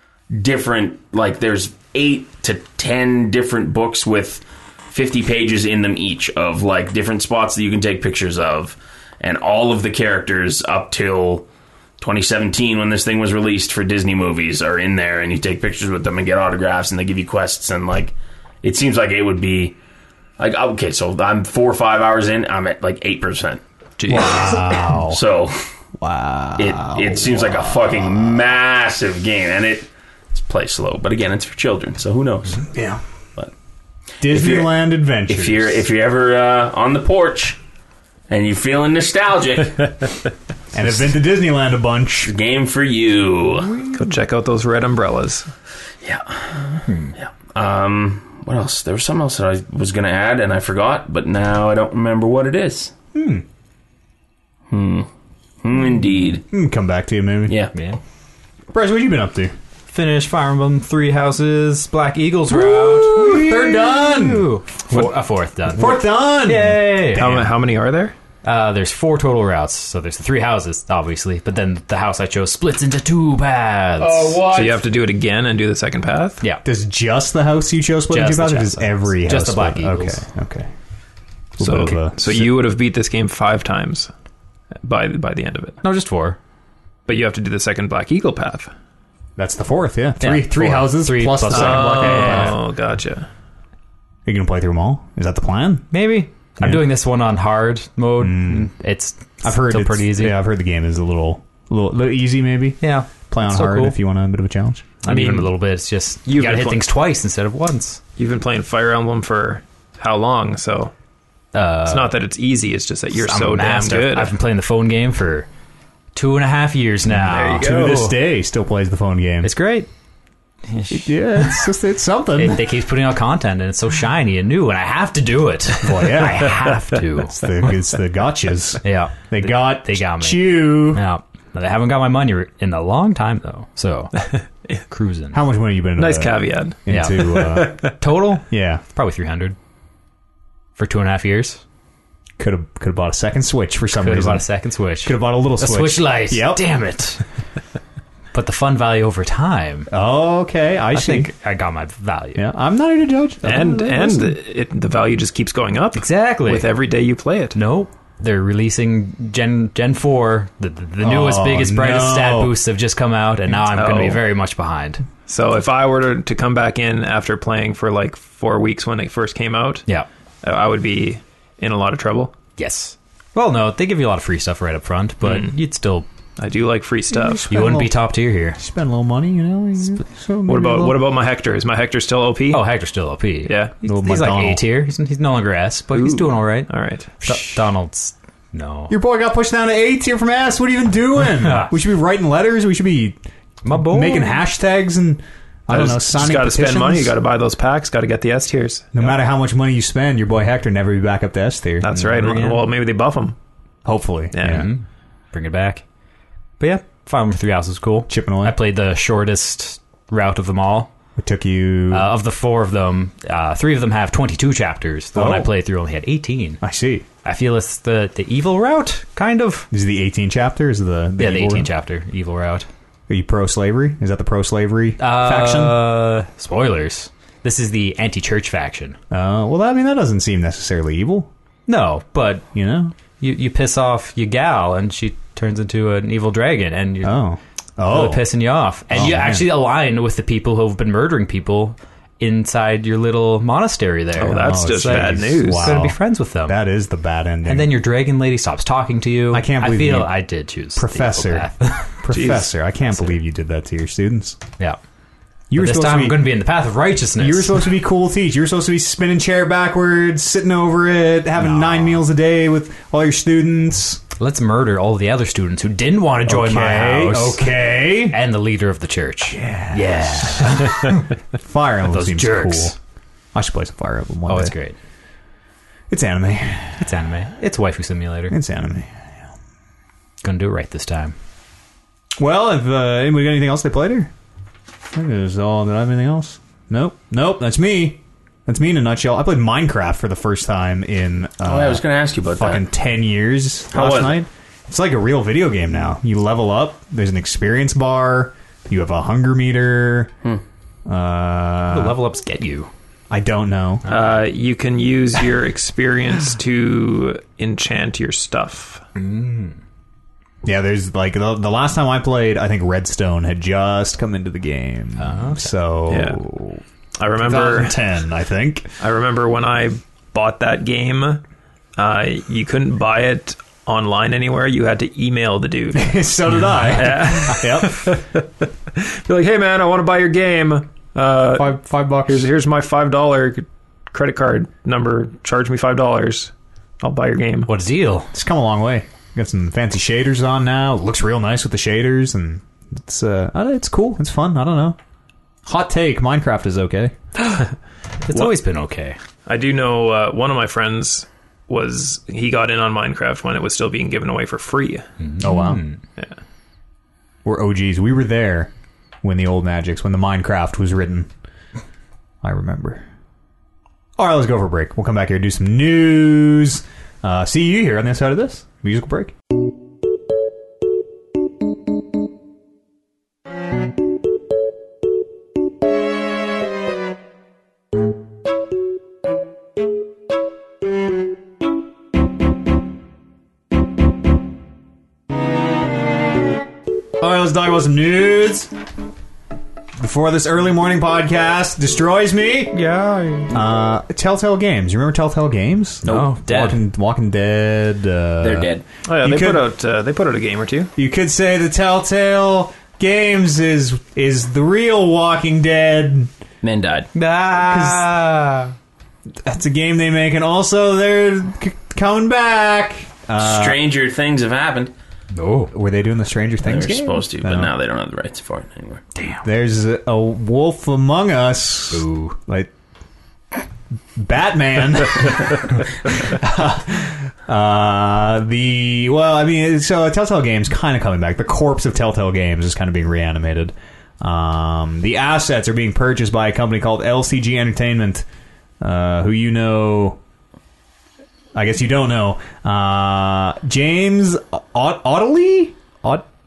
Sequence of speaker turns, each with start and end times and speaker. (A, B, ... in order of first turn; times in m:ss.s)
0:00.3-0:11.5 A
0:12.0-0:19.8 A
0:20.4-0:23.6 A
0:24.0-0:24.4 B
0:24.1-0:25.2 C
0:24.2-0:25.6 A
0:26.0-0:28.4 C
0:26.6-0:32.7 A
0:32.6-0:33.0 C
0:34.2-0:35.8 C
0:34.2-0:34.7 A
0:35.3-0:37.6 A
0:38.3-0:40.0 A
0:40.7-0:42.3 C
0:42.3-0:43.8 A
0:43.9-0:45.5 B
0:46.0-0:52.9 A
0:46.9-0:47.1 D
0:53.1-0:53.4 C
0:54.7-0:55.1 A
0:55.6-0:56.4 A
0:56.5-0:57.6 C
0:57.5-0:57.7 A
0:57.7-0:58.0 D
0:58.7-0:59.5 C
0:59.9-1:07.4 D
1:02.5-1:05.0 C
1:05.7-1:07.5 C
1:07.1-1:08.1 B
1:08.4-1:14.5 D
1:14.3-1:14.8 A
1:14.4-1:16.4 B
1:16.6-1:20.7 C
1:18.1-1:20.2 D
1:21.6-1:22.5 C
1:21.6-1:24.1 B
1:24.8-1:25.8 B
1:25.8-1:26.4 D
1:27.1-1:28.7 B
1:29.4-1:32.6 C
1:30.2-1:32.6 D
1:31.5-1:33.3 B
1:34.2-1:35.9 C
1:35.9-1:40.4 D
1:38.2-1:38.7 C
1:39.4-1:45.3 C
1:42.8-1:44.0 D
1:45.0-1:48.0 D
1:45.1-1:45.5 B
1:46.2-1:46.8 B
1:48.2-1:50.9 B
1:51.5-1:52.2 D
1:51.9-1:54.3 B
1:53.1-1:55.5 D
1:56.1-1:58.1 D
1:57.2-1:58.1 B
1:57.3-1:59.5 C
1:59.4-1:59.9 D
2:00.7-2:01.7 D
2:00.9-2:02.6 C
2:02.4-2:07.8 D
2:05.8-2:11.0 C
2:08.8-2:15.4 D
2:14.4-2:14.8 B
2:15.3-2:17.9 C
2:16.0-2:18.0 B
2:16.9-2:19.6 D
2:18.5-2:18.8 C
2:20.8-2:21.6 D
2:22.4-2:24.5 C
2:23.9-2:27.2 D
2:25.0-2:26.7 C
2:28.3-2:29.9 D
2:29.9-2:31.3 C
2:30.9-2:32.4 D
2:32.4-2:34.3 C
2:33.4-2:37.6 B
2:36.0-2:36.7 D
2:37.6-2:45.0 D
2:41.0-2:42.5 C
2:43.7-2:44.2 B
2:45.3-2:49.9 B
2:50.4-2:52.4 B
2:52.6-2:56.1 D
2:55.2-2:55.5 B
2:56.4-2:57.5 B
2:57.1-2:58.0 C
2:57.4-2:58.6 D
2:58.6-3:01.0 C
3:00.5-3:02.6 B
3:02.5-3:06.7 D
3:03.4-3:03.7 B
3:03.8-3:04.6 C
3:05.9-3:07.1 B
3:07.2-3:08.9 D
3:07.2-3:07.6 C
3:08.9-3:13.2 C
3:11.4-3:11.7 D
3:13.6-3:14.4 D
3:13.7-3:17.2 C
3:15.7-3:18.9 B
3:18.9-3:22.0 C
3:21.8-3:23.4 B
3:21.9-3:22.6 D
3:23.8-3:24.7 C
3:24.3-3:24.7 B
3:24.4-3:25.8 D
3:26.6-3:30.9 D
3:28.1-3:28.6 C
3:31.2-3:32.1 C
3:31.9-3:36.6 D
3:35.2-3:35.5 C
3:36.6-3:37.1 C
3:37.2-3:39.7 D
3:39.7-3:41.7 C
3:41.2-3:42.7 D
3:43.1-3:45.8 C
3:45.0-3:49.0 D
3:49.1-3:51.3 C
3:51.7-3:52.4 D
3:52.5-3:52.9 C
3:53.2-3:57.2 D
3:57.0-3:58.3 C
3:57.8-4:06.6 D
3:58.9-3:59.6 C
4:04.2-4:05.8 B
4:04.3-4:07.8 C
4:07.5-4:12.0 D
4:09.3-4:10.2 C
4:10.8-4:14.4 C
4:12.1-4:12.5 B
4:15.5-4:16.3 C
4:15.5-4:17.6 D
4:17.2-4:24.0 C
4:21.4-4:22.0 D
4:24.2-4:31.0 D
4:26.3-4:28.2 C
4:29.3-4:32.8 C
4:31.9-4:32.8 D
4:33.3-4:34.6 C
4:34.3-4:34.8 D
4:35.9-4:36.9 C
4:36.8-4:38.4 D
4:38.3-4:38.9 C
4:40.2-4:41.2 D
4:42.2-4:44.1 C
4:44.9-4:51.8 C
4:51.4-4:52.6 A
4:52.3-5:00.1 C
4:53.7-4:54.2 A
5:00.9-5:02.0 C
5:01.7-5:02.7 D
5:03.1-5:03.8 C
5:03.9-5:08.8 B
5:09.0-5:09.6 D
5:10.4-5:16.6 C
5:15.0-5:15.5 D
5:15.9-5:16.2 B
5:17.0-5:17.8 B
5:17.2-5:18.7 C
5:18.8-5:21.2 B
5:21.8-5:26.0 B
5:25.8-5:28.0 C
5:26.7-5:37.5 B
5:31.4-5:32.3 C
5:37.5-5:38.1 D
5:38.1-5:44.8 C
5:45.5-5:46.9 C
5:48.1-5:49.0 D
5:49.3-5:54.9 B
5:55.0-5:55.8 D
5:55.2-5:55.6 C
5:57.2-5:58.5 C
5:59.0-6:01.1 C
6:02.2-6:02.8 C
6:04.0-6:09.1 C
6:27.0-6:28.5 C
6:29.8-6:32.6 C
6:32.5-6:33.4 D
6:33.3-6:39.5 C
6:35.8-6:36.6 D
6:38.2-6:38.6 A
6:38.9-6:40.7 B
6:40.8-6:46.1 C
6:46.4-6:46.9 A
6:47.0-6:48.5 D
6:47.3-6:47.9 C
6:49.2-6:53.6 C
6:53.2-6:54.7 A
6:55.1-6:55.5 D
6:55.5-6:57.5 C
6:56.4-6:58.8 A
6:59.0-6:59.2 D
6:59.2-7:02.5 C
7:01.7-7:02.2 D
7:04.0-7:18.0 C
7:18.6-7:20.0 C
7:21.4-7:26.0 C